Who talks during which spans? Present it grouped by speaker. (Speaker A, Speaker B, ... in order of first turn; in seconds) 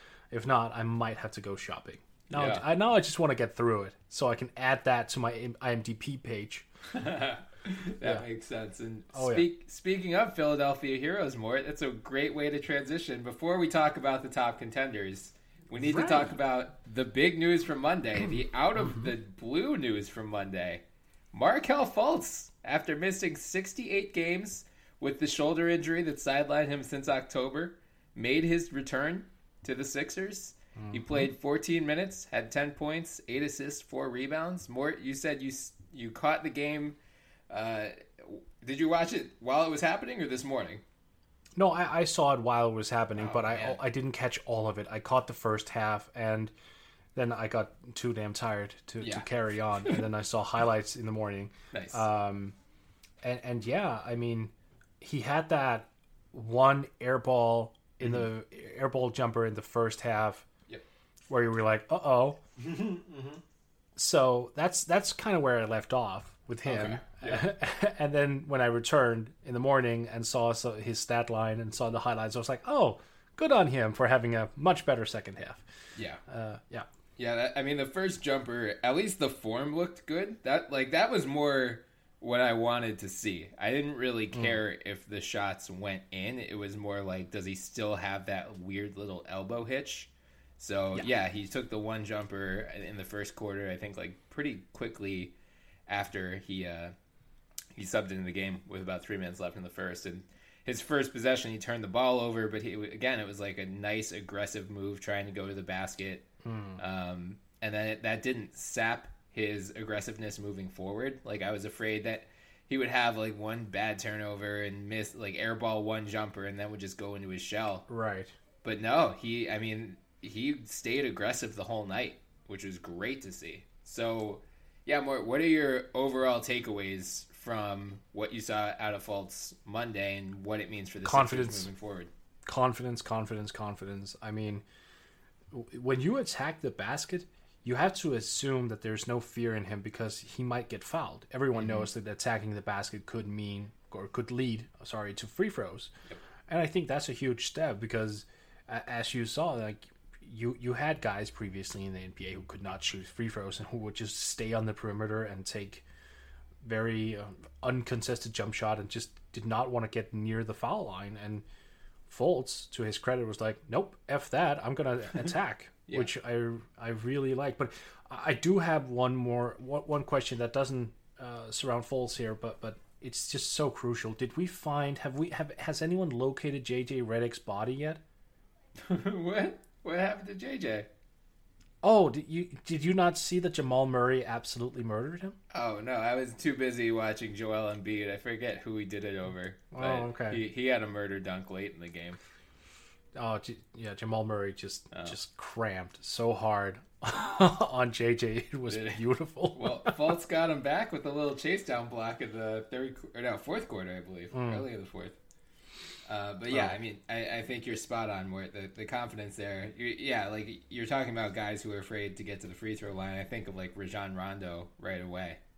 Speaker A: 0.3-6.7, 9.1-9.5, 15.7-16.4, 18.8-19.1, 30.8-31.3, 41.6-46.5, 47.1-52.6, 53.2-60.5, 61.3-62.4, 64.0-75.7, 76.3-76.9, 84.3-84.6, 106.4-106.8, 117.9-118.3, 131.0-131.7, 132.4-134.6, 135.5-145.9, 146.5-155.8, 156.6-161.4, 162.1-178.0, 181.8-185.4, 189.7-190.4, 193.2-200.0, 204.3-204.7, 206.5-206.8
Speaker B: 2.3-2.6, 6.9-37.0, 37.5-40.8, 43.2-43.8, 49.0-49.3, 49.8-50.0, 51.7-52.0, 58.0-58.3, 62.6-63.4, 66.7-67.5, 76.0-76.2, 77.2-95.3, 95.9-96.9, 97.8-106.2, 106.8-117.9, 118.6-132.1, 141.5-141.9, 165.9-166.1, 178.8-180.9, 185.5-192.2, 194.9-195.2, 198.7-205.2, 206.1-215.4